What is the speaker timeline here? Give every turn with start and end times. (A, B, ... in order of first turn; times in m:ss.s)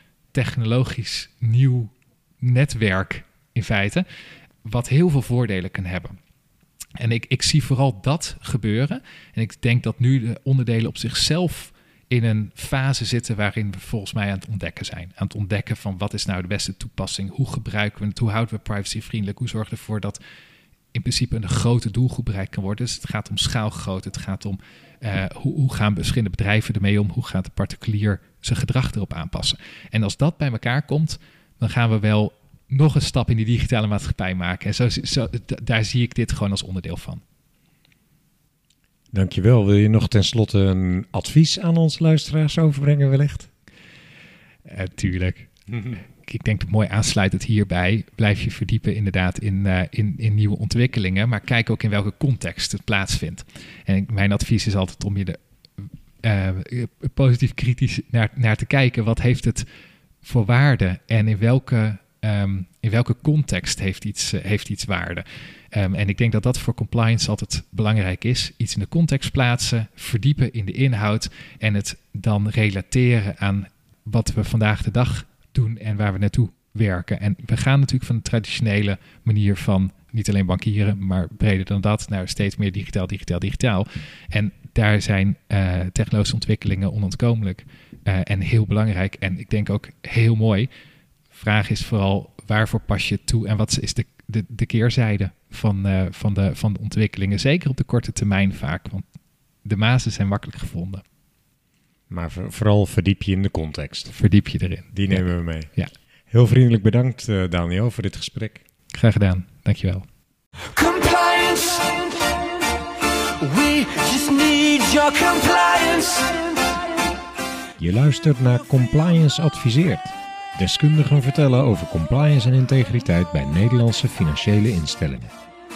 0:00.3-0:04.1 A
0:04.6-0:06.2 A
0:07.0-0:20.2 A
0:20.9-0:37.2 A
0:39.1-0:43.5 B
0:44.7-0:59.7 A
1:00.2-1:30.7 A
1:31.3-1:39.0 A
1:39.6-1:41.0 A
1:42.1-1:44.1 B
1:44.1-1:45.9 A
1:44.9-1:45.7 B
1:46.3-1:48.6 B
1:48.9-1:50.1 A
1:50.7-1:57.0 C
1:57.8-2:05.3 B